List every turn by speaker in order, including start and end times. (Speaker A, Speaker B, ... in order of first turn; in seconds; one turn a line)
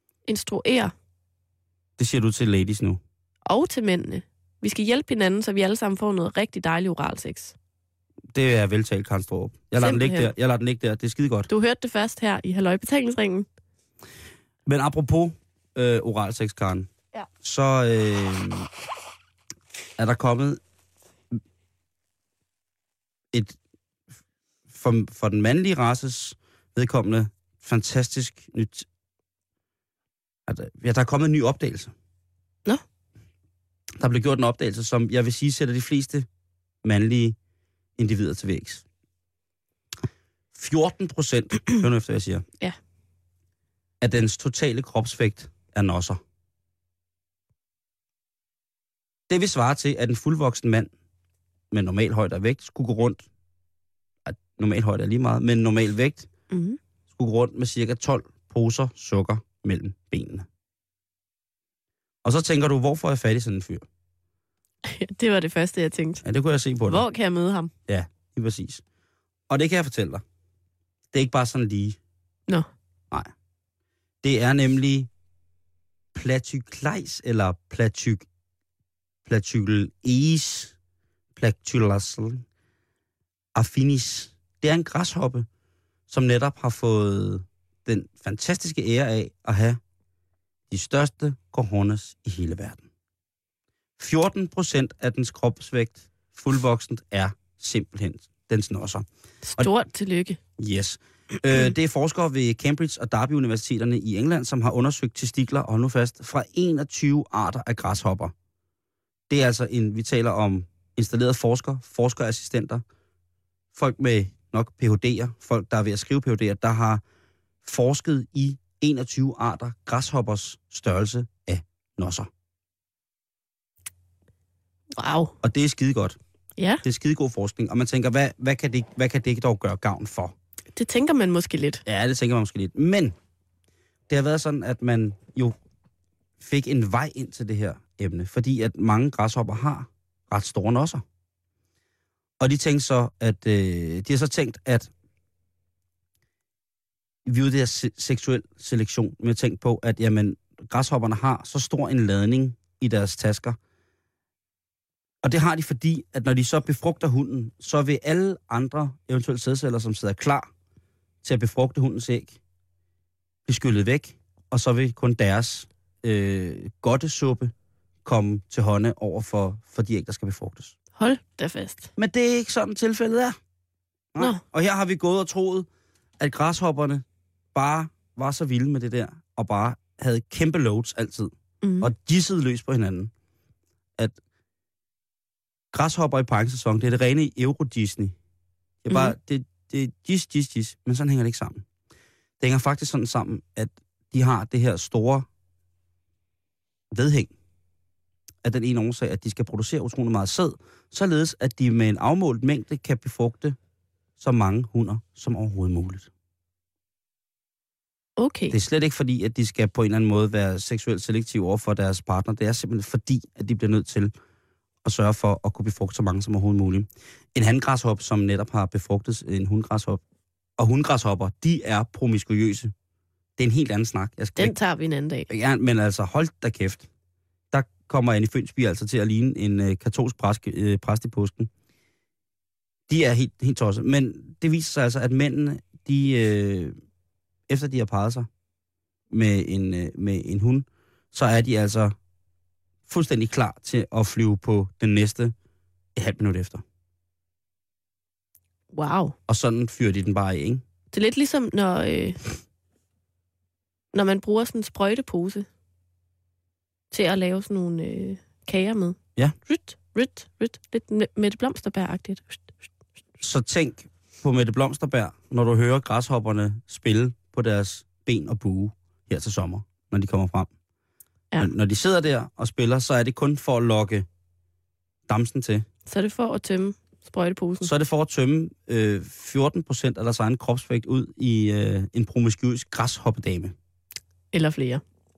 Speaker A: 0.3-0.9
Speaker B: 2.0-3.0
Speaker A: 3.5-7.5
Speaker B: 8.3-11.5
Speaker A: 9.8-10.3
Speaker A: 11.5-13.5
Speaker B: 14.7-16.9
Speaker B: 17.4-18.7
Speaker B: 20.0-20.6
Speaker B: 24.7-28.9
Speaker B: 30.5-31.9
Speaker B: 34.0-36.3
Speaker B: 36.8-37.4
Speaker B: 38.0-38.8
Speaker B: 40.5-42.4
Speaker B: 44.0-46.2
Speaker B: 49.3-50.9
Speaker B: 51.7-53.2
Speaker B: 54.2-56.3
Speaker A: 56.5-56.8
Speaker B: 57.1-60.5
Speaker B: 62.2-63.9
Speaker A: 64.8-66.2
Speaker B: 66.2-67.0
Speaker A: 66.9-67.7
Speaker B: 67.9-68.8
Speaker B: 69.5-70.2
Speaker B: 71.1-72.0
Speaker B: 74.2-75.1
Speaker B: 76.1-78.3
Speaker B: 79.3-80.7
Speaker B: 81.4-82.4
Speaker B: 83.5-85.5
Speaker B: 86.1-89.8
Speaker B: 90.7-92.8
Speaker B: 94.0-99.1
Speaker A: 99.4-100.4
Speaker B: 100.6-108.3
Speaker B: 109.3-112.8
Speaker B: 113.8-117.0
Speaker B: 117.6-122.3
Speaker A: 124.9-125.3
Speaker B: 125.4-126.2
Speaker A: 126.6-126.8
Speaker B: 126.8-130.3
Speaker A: 130.8-131.8
Speaker B: 131.9-133.2
Speaker B: 134.1-135.6
Speaker B: 136.4-141.0
Speaker B: 142.4-144.9
Speaker B: 147.3-153.6
Speaker B: 155.2-160.5
Speaker B: 161.2-162.4
Speaker B: 163.5-167.5
Speaker B: 168.1-170.8
Speaker A: 171.0-171.9
Speaker B: 172.0-173.4
Speaker B: 174.1-175.7
Speaker B: 176.2-177.0
Speaker B: 177.6-183.1
Speaker A: 181.6-181.9
Speaker B: 185.7-188.1
Speaker B: 188.8-191.6
Speaker B: 192.4-195.3
Speaker B: 196.9-197.3
Speaker B: 198.4-203.6
Speaker B: 204.2-206.1
Speaker A: 208.2-208.6
Speaker B: 208.5-214.1
Speaker B: 214.8-220.0
Speaker B: 220.6-222.7
Speaker B: 223.4-224.5
Speaker A: 224.4-225.3
Speaker B: 225.3-226.9
Speaker B: 227.5-231.5
Speaker B: 232.9-236.8
Speaker B: 237.5-238.3
Speaker B: 239.1-241.9
Speaker B: 242.9-245.3
Speaker B: 246.0-246.6
Speaker A: 248.7-249.2
Speaker B: 249.3-250.6
Speaker A: 250.9-252.2
Speaker A: 253.9-255.5
Speaker A: 256.9-262.4
Speaker B: 263.2-270.5
Speaker B: 271.4-274.1
Speaker B: 275.1-275.6
Speaker A: 275.9-277.7
Speaker B: 277.6-283.5
Speaker A: 284.3-284.8